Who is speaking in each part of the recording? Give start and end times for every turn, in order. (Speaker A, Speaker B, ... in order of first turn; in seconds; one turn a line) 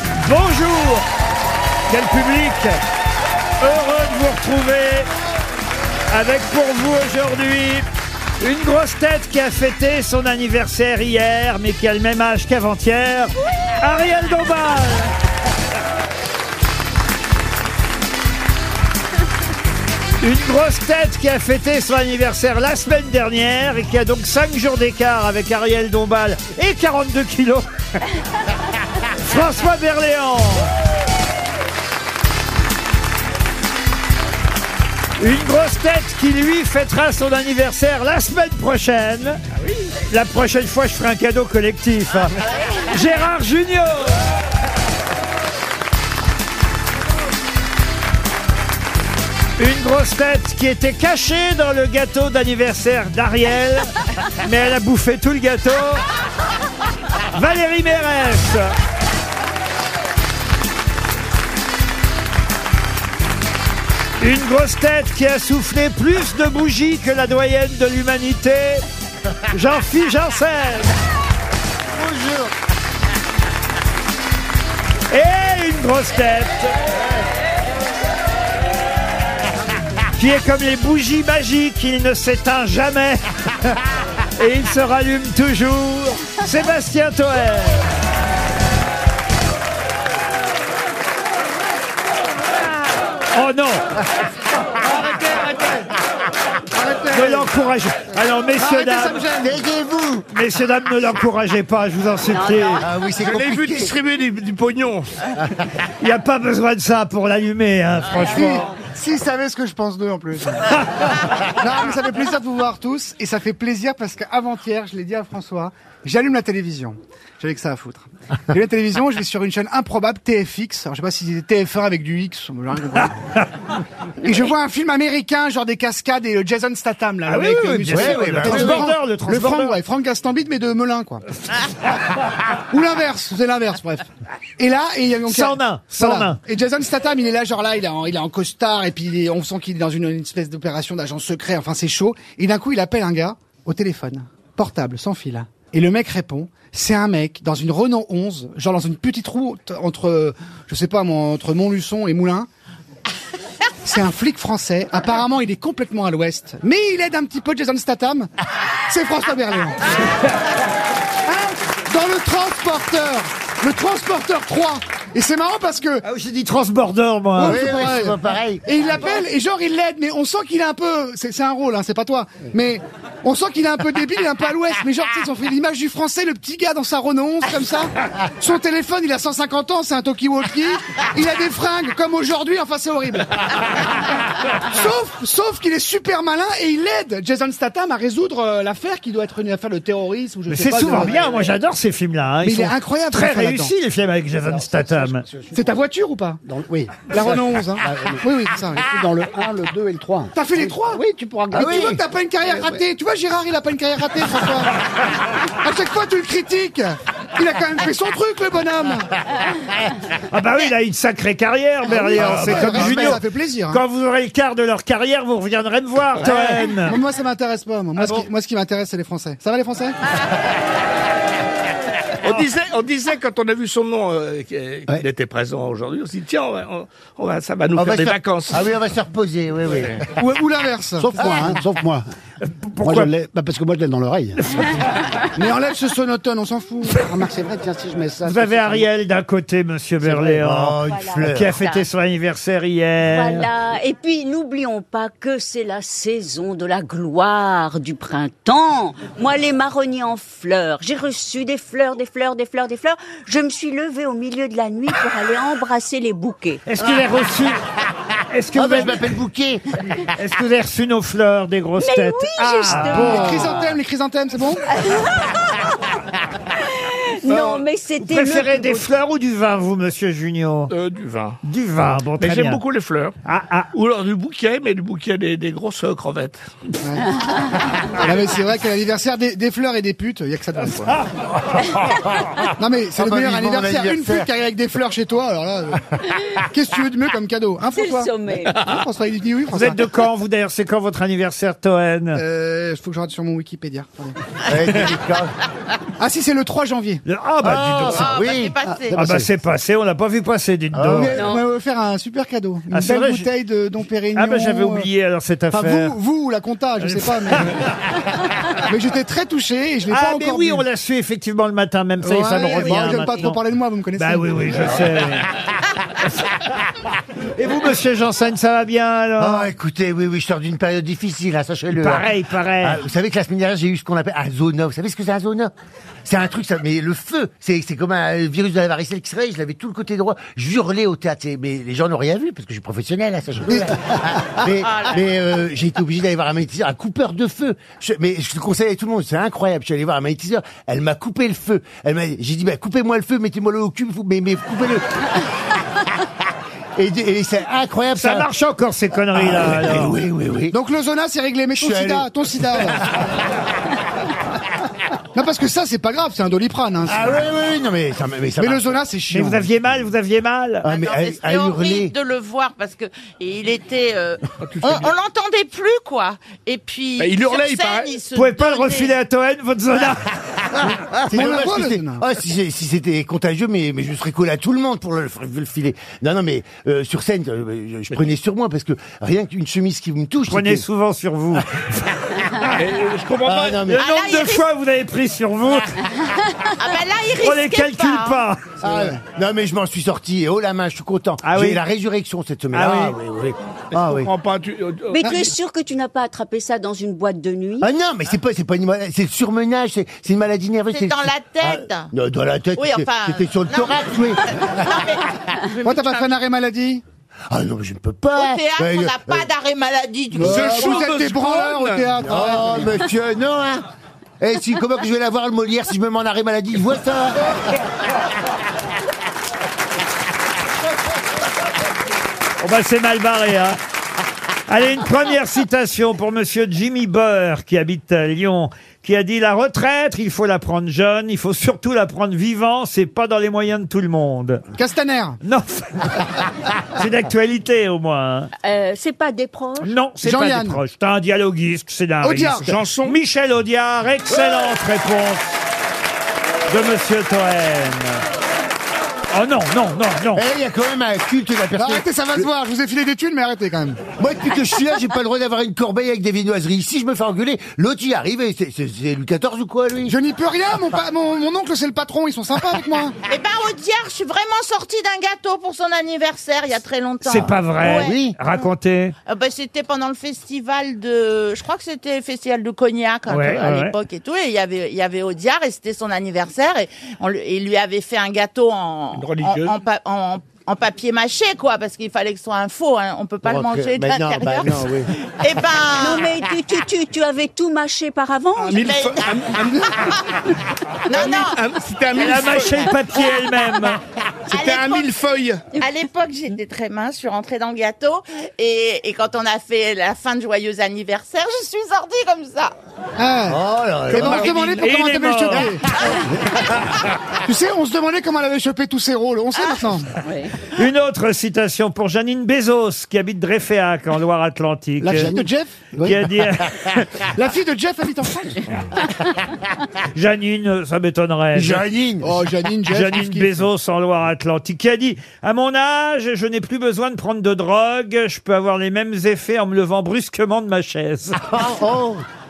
Speaker A: 0.2-1.1
Speaker A: 1.9-2.8
Speaker A: 3.6-5.1
Speaker A: 6.1-7.9
Speaker A: 8.4-15.1
Speaker A: 20.2-27.6
Speaker A: 29.2-30.7
Speaker A: 35.2-39.4
Speaker B: 39.6-39.9
Speaker A: 40.1-42.4
Speaker A: 42.9-44.2
Speaker A: 49.6-56.1
Speaker A: 57.3-58.7
Speaker A: 64.2-68.8
Speaker A: 69.5-70.9
Speaker C: 71.9-72.5
Speaker A: 75.1-76.8
Speaker A: 80.1-83.8
Speaker A: 84.4-87.8
Speaker A: 93.3-93.8
Speaker D: 96.7-97.5
Speaker A: 97.1-99.2
Speaker D: 98.6-99.6
Speaker C: 99.4-100.3
Speaker A: 100.3-102.8
Speaker E: 102.3-102.8
Speaker C: 102.8-103.9
Speaker B: 103.2-105.1
Speaker A: 106.0-108.7
Speaker D: 108.2-110.8
Speaker D: 111.5-123.2
Speaker D: 124.2-131.2
Speaker A: 127.3-129.8
Speaker C: 127.9-128.9
Speaker D: 132.7-152.5
Speaker A: 135.3-136.4
Speaker D: 153.8-158.3
Speaker D: 158.9-160.0
Speaker D: 161.3-166.0
Speaker A: 166.0-167.6
Speaker D: 167.4-183.4
Speaker C: 167.4-168.7
Speaker D: 184.7-191.4
Speaker A: 190.5-195.2
Speaker D: 192.4-193.7
Speaker F: 194.4-195.8
Speaker D: 195.5-196.4
Speaker F: 196.4-202.8
Speaker D: 197.1-198.9
Speaker D: 200.3-204.8
Speaker C: 201.5-202.0
Speaker D: 205.5-209.1
Speaker A: 210.3-217.0
Speaker D: 211.9-213.8
Speaker B: 216.2-216.6
Speaker D: 216.3-220.0
Speaker A: 218.0-218.3
Speaker B: 222.2-228.6
Speaker C: 227.8-230.1
Speaker D: 230.2-231.6
Speaker F: 231.0-232.1
Speaker A: 232.4-233.1
Speaker F: 232.8-234.7
Speaker D: 235.4-237.1
Speaker F: 236.9-238.9
Speaker A: 238.2-243.5
Speaker F: 240.0-240.4
Speaker C: 240.3-241.6
Speaker E: 240.9-241.8
Speaker E: 243.0-256.6
Speaker A: 256.7-257.6
Speaker A: 258.3-259.1
Speaker C: 258.5-259.6
Speaker A: 260.1-263.6
Speaker E: 261.8-263.8
Speaker D: 262.7-264.8
Speaker E: 264.8-265.8
Speaker E: 266.8-268.9
Speaker A: 267.3-270.7
Speaker B: 270.7-271.4
Speaker A: 271.4-272.6
Speaker B: 272.2-273.1
Speaker A: 273.2-273.7
Speaker B: 273.7-276.4
Speaker D: 276.8-281.0
Speaker C: 281.6-282.4
Speaker D: 282.6-289.8
Speaker C: 282.9-284.3
Speaker E: 287.7-288.7
Speaker A: 289.5-292.2
Speaker D: 292.1-294.2
Speaker C: 294.4-295.3
Speaker D: 296.0-297.0
Speaker A: 297.1-298.1
Speaker C: 297.4-299.3
Speaker G: 297.9-298.9
Speaker A: 298.9-301.2
Speaker C: 300.7-301.2
Speaker D: 300.9-304.9
Speaker E: 301.1-301.4
Speaker A: 302.7-303.3
Speaker A: 304.1-306.0
Speaker D: 305.5-307.6
Speaker A: 306.8-307.7
Speaker D: 308.6-310.6
Speaker A: 309.9-313.4
Speaker D: 312.0-314.8
Speaker E: 312.6-313.2
Speaker A: 314.0-315.3
Speaker A: 317.4-319.5
Speaker C: 319.2-322.1
Speaker A: 321.7-322.8
Speaker C: 322.6-325.5
Speaker C: 326.1-345.3
Speaker G: 334.6-335.0
Speaker C: 346.8-348.3
Speaker A: 348.0-349.9
Speaker C: 349.1-350.6
Speaker D: 350.5-352.9
Speaker C: 351.6-352.1
Speaker D: 355.1-357.2
Speaker C: 356.9-358.8
Speaker D: 358.4-359.4
Speaker A: 359.1-360.7
Speaker C: 360.6-361.9
Speaker G: 360.7-368.9
Speaker B: 364.4-364.9
Speaker B: 367.0-367.9
Speaker A: 368.1-370.1
Speaker C: 370.5-380.7
Speaker D: 371.1-372.0
Speaker A: 380.3-382.5
Speaker B: 382.5-383.6
Speaker C: 383.2-383.9
Speaker A: 383.7-385.8
Speaker G: 383.7-384.4
Speaker G: 386.5-388.2
Speaker A: 387.2-388.4
Speaker C: 388.6-394.1
Speaker A: 391.2-391.6
Speaker A: 392.5-393.0
Speaker B: 393.8-395.2
Speaker E: 394.9-397.7
Speaker C: 397.6-404.7
Speaker G: 400.7-401.9
Speaker G: 402.6-405.8
Speaker D: 405.6-406.8
Speaker C: 407.3-409.3
Speaker G: 408.1-410.8
Speaker C: 410.2-410.5
Speaker D: 410.2-412.8
Speaker B: 410.2-411.9
Speaker C: 412.0-413.7
Speaker C: 414.2-417.5
Speaker A: 422.4-423.6
Speaker A: 424.5-434.4
Speaker D: 434.6-435.2
Speaker A: 435.2-436.1
Speaker A: 436.7-438.3
Speaker E: 438.4-439.8
Speaker A: 439.6-445.4
Speaker D: 440.0-440.6
Speaker D: 442.0-442.6
Speaker B: 442.4-443.0
Speaker A: 446.5-448.0
Speaker A: 449.1-450.2
Speaker C: 450.1-452.3
Speaker D: 451.6-453.8
Speaker C: 454.0-460.0
Speaker D: 459.9-463.0
Speaker G: 463.1-468.0
Speaker A: 467.0-468.9
Speaker C: 467.6-468.2
Speaker G: 469.1-486.1
Speaker A: 473.1-473.8
Speaker B: 478.9-479.6
Speaker C: 483.2-484.9
Speaker E: 485.8-488.8
Speaker B: 488.4-489.9
Speaker G: 488.6-490.0
Speaker G: 490.9-491.4
Speaker B: 490.9-492.7
Speaker A: 492.0-493.8
Speaker B: 494.3-495.5
Speaker G: 494.3-494.9
Speaker G: 495.6-502.5
Speaker D: 503.0-505.9
Speaker C: 503.3-504.6
Speaker B: 503.9-504.7
Speaker A: 504.6-505.5
Speaker C: 505.9-506.7
Speaker D: 507.2-509.9
Speaker E: 510.0-510.3
Speaker A: 510.5-515.1
Speaker F: 514.8-516.1
Speaker D: 515.0-515.6
Speaker A: 515.8-516.9
Speaker D: 517.0-518.4
Speaker A: 519.9-521.6
Speaker C: 521.3-522.3
Speaker D: 522.0-523.5
Speaker A: 522.7-531.2
Speaker C: 531.2-532.0